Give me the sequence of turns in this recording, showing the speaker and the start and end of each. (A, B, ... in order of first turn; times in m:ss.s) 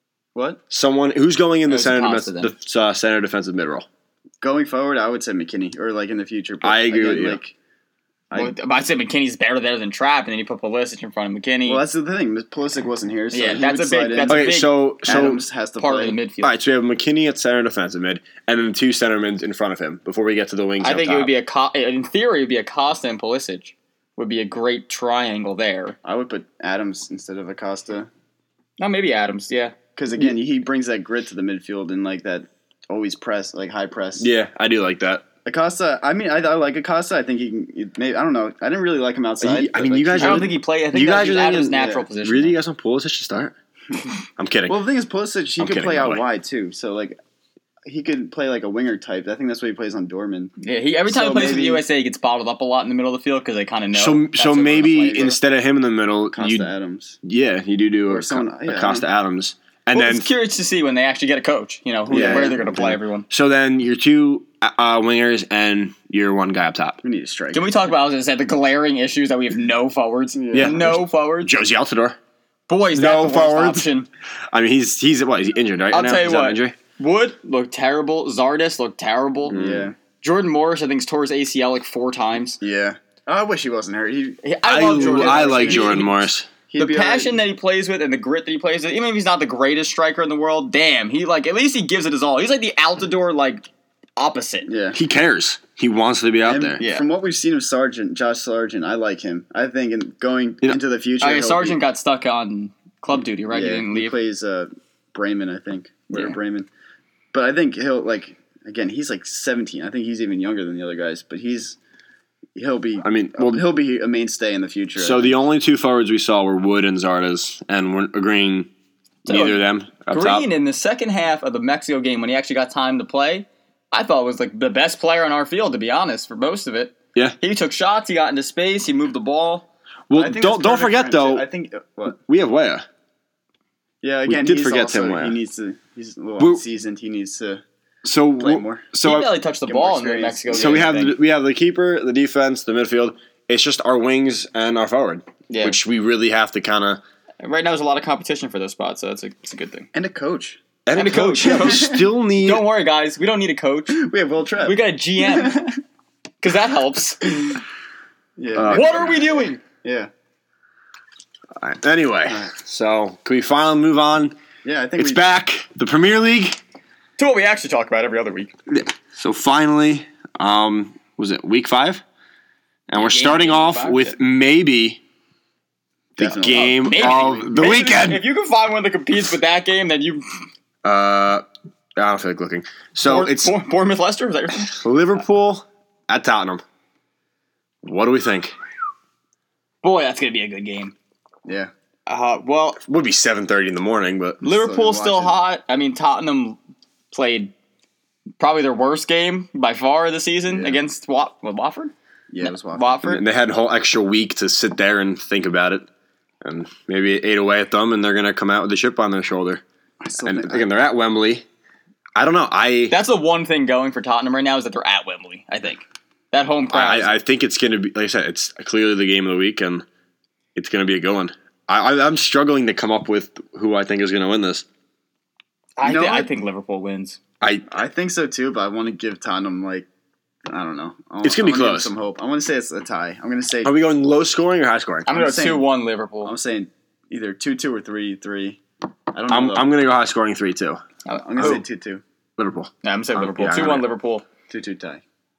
0:00.4-0:00.6 A
0:00.7-0:03.9 B
0:01.7-0:02.5 C
0:04.4-0:07.5 A
0:06.6-0:07.4 B
0:08.3-0:11.8 C
0:11.7-0:16.2 A
0:13.3-0:15.2 C
0:14.3-0:15.4 B
0:15.8-0:16.5 C
0:16.4-0:21.3 B
0:20.8-0:26.0 C
0:26.0-0:28.1 A
0:28.8-0:29.8 C
0:30.0-0:34.3 A
0:34.2-0:35.2 B
0:35.4-0:40.6 A
0:39.4-0:43.6 B
0:40.2-0:42.6 C
0:41.7-0:42.1 A
0:44.4-0:44.8 B
0:44.7-0:47.2 A
0:45.6-0:46.2 B
0:47.8-0:50.5 A
0:50.6-0:55.4 C
0:51.1-0:51.8 A
0:53.9-0:56.7 B
0:54.8-0:55.4 A
0:56.3-0:57.2 A
0:57.2-1:00.3 B
0:58.1-0:59.1 A
0:59.9-1:03.3 C
1:02.1-1:02.6 A
1:02.1-1:07.0 B
1:07.0-1:07.7 A
1:07.5-1:11.5 C
1:10.4-1:10.8 A
1:10.5-1:12.2 B
1:12.7-1:14.1 C
1:13.0-1:13.9 B
1:14.5-1:16.8 B
1:15.9-1:19.6 C
1:19.5-1:20.0 A
1:19.5-1:19.9 B
1:20.2-1:22.6 C
1:22.6-1:26.1 A
1:24.4-1:26.2 C
1:24.7-1:26.5 B
1:26.7-1:27.4 A
1:26.8-1:33.6 C
1:34.2-1:34.7 C
1:34.7-1:35.0 A
1:34.9-1:36.8 B
1:36.4-1:41.8 A
1:36.8-1:37.0 C
1:41.2-1:44.2 C
1:43.5-1:46.7 A
1:47.3-1:51.8 A
1:52.6-1:55.4 A
1:53.0-1:53.6 B
1:55.0-1:58.7 B
1:59.3-2:00.5 B
1:59.3-2:09.7 C
2:10.1-2:11.4 B
2:10.2-2:12.2 A
2:12.2-2:12.8 B
2:14.0-2:17.6 A
2:14.3-2:15.4 B
2:18.0-2:19.3 B
2:18.4-2:18.9 A
2:19.0-2:21.2 C
2:19.7-2:20.9 A
2:20.5-2:27.0 B
2:25.5-2:25.8 C
2:27.4-2:29.9 C
2:29.9-2:30.6 A
2:30.9-2:32.7 B
2:30.9-2:34.0 C
2:31.4-2:32.0 A
2:33.9-2:35.8 A
2:34.6-2:35.6 C
2:36.4-2:37.3 C
2:38.4-2:40.1 A
2:38.6-2:39.1 B
2:38.7-2:39.6 C
2:41.6-2:44.4 B
2:44.6-2:45.3 A
2:45.0-2:46.6 B
2:47.2-2:48.5 C
2:48.7-2:52.0 B
2:52.9-2:55.0 B
2:52.9-2:54.2 C
2:56.2-2:58.2 B
2:56.2-2:57.4 A
2:56.5-3:00.2 C
3:00.8-3:01.4 B
3:02.0-3:03.5 B
3:03.0-3:04.8 C
3:04.8-3:06.6 B
3:07.8-3:08.5 B
3:09.8-3:10.9 C
3:11.4-3:11.7 A
3:12.1-3:12.8 C
3:12.8-3:14.4 B
3:14.4-3:16.6 C
3:14.4-3:15.4 A
3:17.1-3:17.5 C
3:18.4-3:23.2 C
3:20.5-3:20.8 A
3:22.3-3:23.0 A
3:23.0-3:25.9 B
3:26.4-3:29.6 B
3:30.0-3:30.7 A
3:30.2-3:31.4 B
3:32.2-3:33.0 B
3:32.9-3:37.1 C
3:36.7-3:39.8 B
3:40.6-3:44.6 B
3:45.8-3:47.2 C
3:45.8-3:46.3 A
3:47.4-3:47.7 B
3:47.7-3:49.9 A
3:50.5-3:53.8 A
3:51.2-3:51.9 B
3:53.6-3:55.1 B
3:55.1-3:56.3 C
3:55.1-3:55.7 A
3:56.2-3:58.6 A
3:59.1-3:59.7 A
3:59.3-4:00.8 B
4:01.1-4:01.6 C
4:01.2-4:02.0 A
4:02.4-4:03.9 B
4:02.8-4:04.2 C
4:04.5-4:05.0 A